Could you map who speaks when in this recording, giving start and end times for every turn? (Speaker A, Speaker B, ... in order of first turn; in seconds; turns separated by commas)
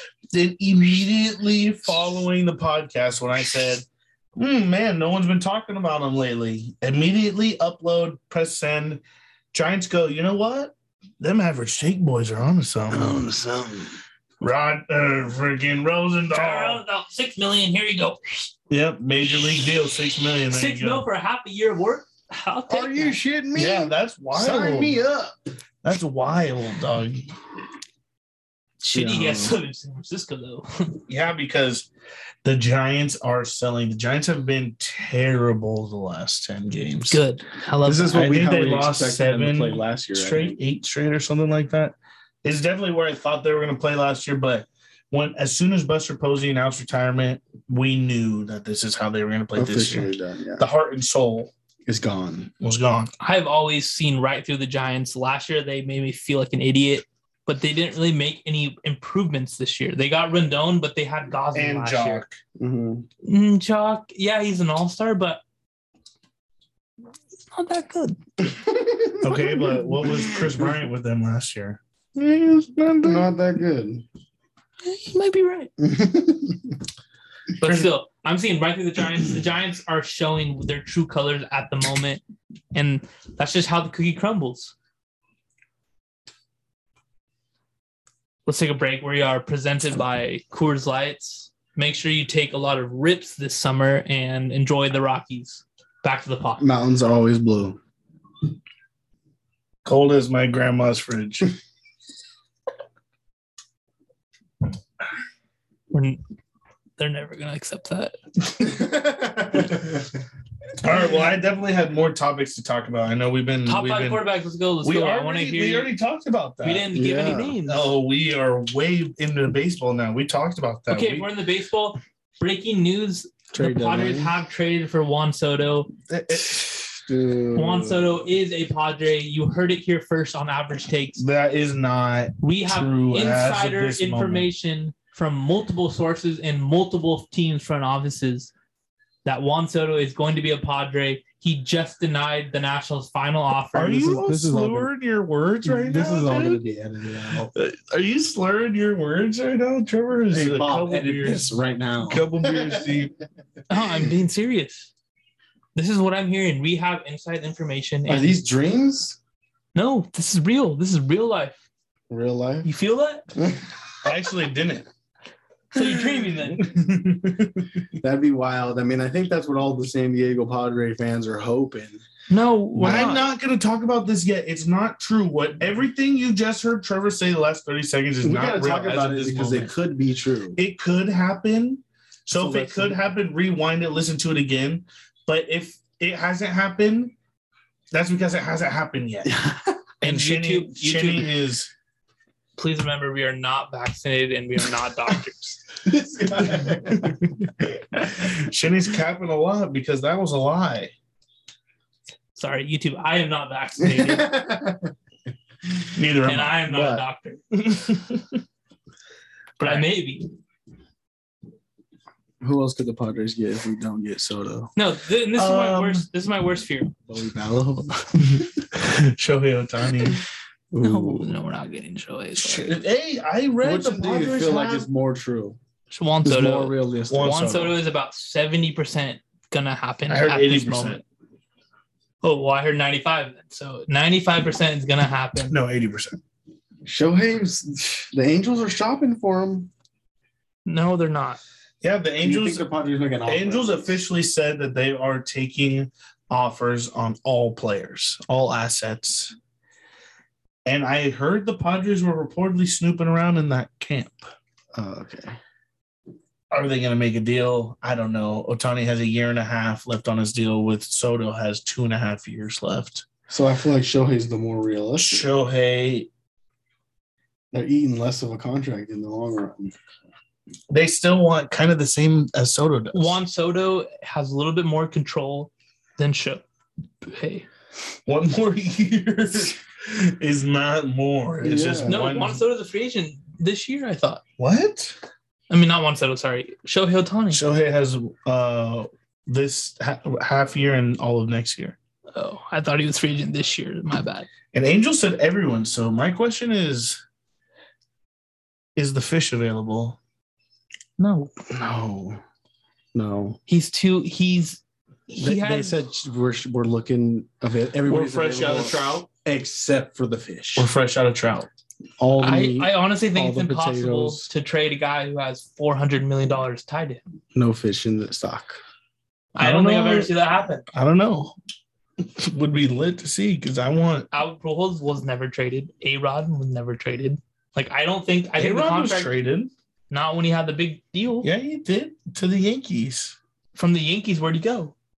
Speaker A: 0.3-9.0, Speaker A: 9.5-13.2, Speaker B: 12.9-13.9, Speaker A: 14.4-16.8, Speaker C: 16.3-18.5, Speaker A: 18.7-21.1, Speaker C: 20.5-23.2, Speaker B: 22.7-25.3, Speaker A: 23.6-25.0, Speaker A: 25.8-27.3, Speaker C: 28.8-31.0, Speaker B: 28.9-29.6, Speaker A: 31.1-31.9, Speaker A: 32.4-37.2, Speaker C: 37.1-38.2, Speaker B: 37.8-40.6, Speaker A: 38.1-51.5, Speaker B: 49.6-50.6, Speaker B: 51.9-52.5, Speaker A: 52.6-53.1, Speaker C: 53.2-62.2, Speaker A: 61.5-62.4, Speaker B: 62.6-63.1, Speaker C: 63.2-65.4, Speaker C: 67.5-68.2, Speaker B: 68.4-70.4, Speaker A: 69.2-73.3, Speaker B: 73.0-74.0, Speaker C: 74.8-75.7, Speaker B: 75.8-76.8, Speaker C: 77.6-82.2, Speaker A: 77.6-77.9, Speaker C: 82.7-84.7, Speaker C: 88.5-96.6, Speaker B: 96.6-97.8, Speaker A: 99.8-101.5, Speaker C: 105.9-106.2, Speaker C: 107.0-108.2, Speaker B: 108.6-110.1, Speaker A: 110.8-114.2, Speaker C: 113.7-115.9, Speaker A: 114.8-116.9, Speaker C: 116.6-117.9, Speaker B: 116.9-117.6, Speaker A: 117.7-121.3, Speaker C: 120.9-125.9, Speaker B: 123.5-124.4, Speaker A: 126.1-126.7, Speaker B: 126.5-128.1, Speaker C: 127.5-131.2, Speaker A: 131.2-134.5, Speaker C: 132.4-138.5, Speaker C: 139.2-144.2, Speaker A: 143.7-146.6, Speaker B: 143.8-144.9, Speaker B: 145.7-147.5, Speaker A: 147.5-153.1, Speaker B: 150.3-152.7, Speaker C: 153.7-154.9, Speaker C: 155.8-158.4, Speaker B: 158.1-159.2, Speaker C: 159.8-161.6, Speaker B: 162.1-162.7, Speaker C: 162.6-163.3, Speaker A: 164.0-164.9, Speaker C: 165.7-166.7, Speaker A: 166.4-167.7, Speaker B: 168.0-172.0, Speaker C: 172.3-173.3, Speaker A: 172.8-179.7, Speaker B: 178.2-180.6, Speaker A: 180.6-187.2, Speaker B: 182.3-183.0, Speaker A: 187.9-189.3, Speaker B: 189.2-189.8, Speaker A: 190.0-191.7, Speaker C: 190.0-191.3, Speaker C: 192.6-195.6, Speaker B: 195.9-197.3, Speaker A: 196.4-197.2, Speaker A: 198.0-200.9, Speaker C: 202.4-204.3, Speaker B: 203.8-204.9, Speaker A: 205.9-206.7, Speaker C: 206.2-207.6, Speaker B: 206.7-207.0, Speaker A: 207.7-208.3, Speaker A: 209.6-209.9, Speaker C: 209.6-210.3, Speaker B: 212.4-214.7, Speaker C: 214.8-216.9, Speaker A: 215.3-216.1, Speaker B: 217.1-218.5, Speaker A: 218.7-220.2, Speaker B: 220.7-221.3, Speaker C: 220.8-222.7, Speaker A: 222.4-224.9, Speaker B: 223.6-225.6, Speaker C: 225.9-231.0, Speaker B: 226.2-227.4, Speaker A: 227.1-227.8, Speaker A: 230.1-231.0, Speaker C: 232.2-235.6, Speaker A: 235.5-236.2, Speaker B: 236.8-239.7, Speaker C: 240.7-241.4, Speaker A: 241.8-242.7, Speaker B: 242.2-244.0, Speaker A: 243.3-249.3, Speaker A: 250.7-254.3, Speaker B: 254.8-255.4, Speaker A: 256.5-263.1, Speaker B: 263.3-265.3, Speaker A: 265.0-266.1, Speaker B: 267.5-269.8, Speaker A: 270.7-273.2, Speaker C: 272.9-276.4, Speaker C: 277.0-277.5, Speaker A: 278.1-282.4, Speaker B: 281.4-282.2, Speaker C: 281.9-284.2, Speaker A: 284.4-285.0, Speaker C: 285.5-287.4, Speaker A: 287.3-291.8, Speaker C: 292.1-294.3, Speaker A: 294.5-297.0, Speaker A: 298.8-300.0, Speaker C: 301.0-301.3, Speaker B: 301.5-302.2, Speaker B: 302.9-303.4, Speaker C: 303.5-305.8, Speaker B: 305.2-310.7, Speaker A: 307.9-309.1, Speaker A: 310.6-311.5, Speaker B: 312.0-314.3, Speaker C: 312.2-317.0, Speaker B: 317.4-318.6, Speaker A: 319.4-320.1, Speaker C: 319.4-320.7, Speaker A: 320.7-321.4, Speaker A: 322.0-324.1, Speaker C: 324.1-329.1, Speaker A: 328.4-329.5, Speaker C: 329.9-331.3, Speaker A: 331.2-333.2, Speaker C: 333.6-334.7